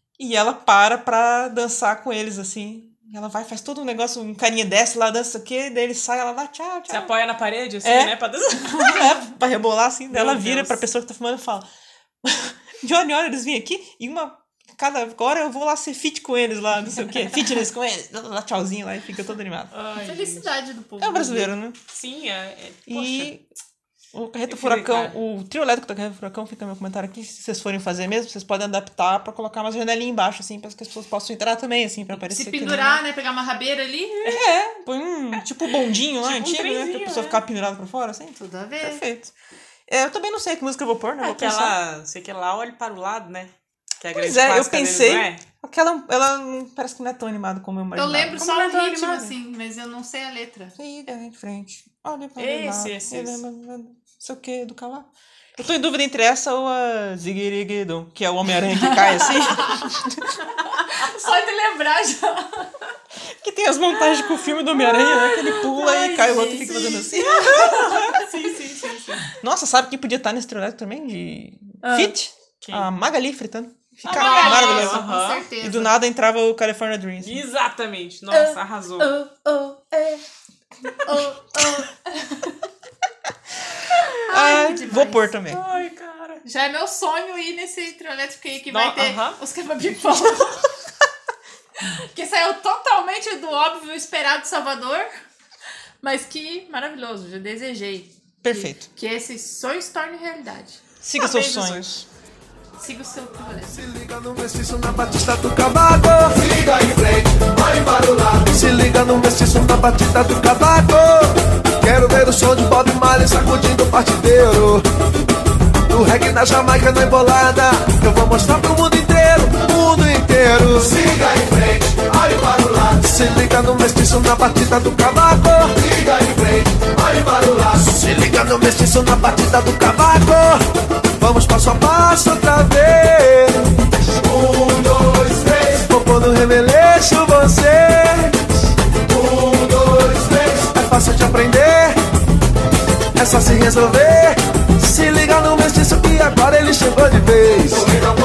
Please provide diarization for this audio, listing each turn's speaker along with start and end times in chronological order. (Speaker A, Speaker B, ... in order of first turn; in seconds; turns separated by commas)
Speaker A: 0.2-7.1, Speaker B: 6.9-9.2, Speaker A: 7.8-11.7, Speaker B: 10.1-10.8, Speaker A: 12.2-19.7, Speaker B: 19.7-20.5, Speaker C: 20.0-21.5, Speaker A: 21.0-21.8, Speaker B: 21.9-23.3, Speaker A: 22.9-23.4, Speaker A: 24.1-33.0, Speaker B: 24.5-25.1, Speaker C: 32.2-34.4, Speaker A: 34.2-39.3, Speaker B: 36.2-37.4, Speaker C: 38.4-39.0, Speaker A: 39.9-41.8, Speaker B: 41.2-45.4, Speaker A: 44.1-48.5, Speaker C: 48.0-50.7, Speaker B: 48.4-49.3, Speaker A: 50.8-60.4, Speaker B: 52.4-53.4, Speaker C: 58.8-59.9, Speaker C: 60.7-62.9, Speaker A: 63.4-68.1, Speaker C: 64.1-68.2, Speaker B: 67.5-69.3, Speaker A: 69.4-77.4, Speaker C: 71.8-72.1, Speaker B: 72.6-72.9, Speaker B: 74.0-75.5, Speaker C: 74.0-76.0, Speaker B: 77.2-79.1, Speaker C: 78.3-80.2, Speaker C: 81.0-82.5, Speaker C: 84.3-85.3, Speaker A: 84.3-85.6, Speaker B: 85.5-86.4, Speaker C: 86.4-90.7, Speaker B: 88.7-89.4, Speaker C: 91.8-95.1, Speaker C: 96.0-100.8, Speaker A: 98.4-98.9, Speaker A: 101.0-102.1, Speaker B: 101.1-101.9, Speaker C: 102.8-103.8, Speaker D: 103.6-114.8, Speaker D: 115.9-130.6, Speaker D: 131.2-142.0, Speaker D: 143.1-148.0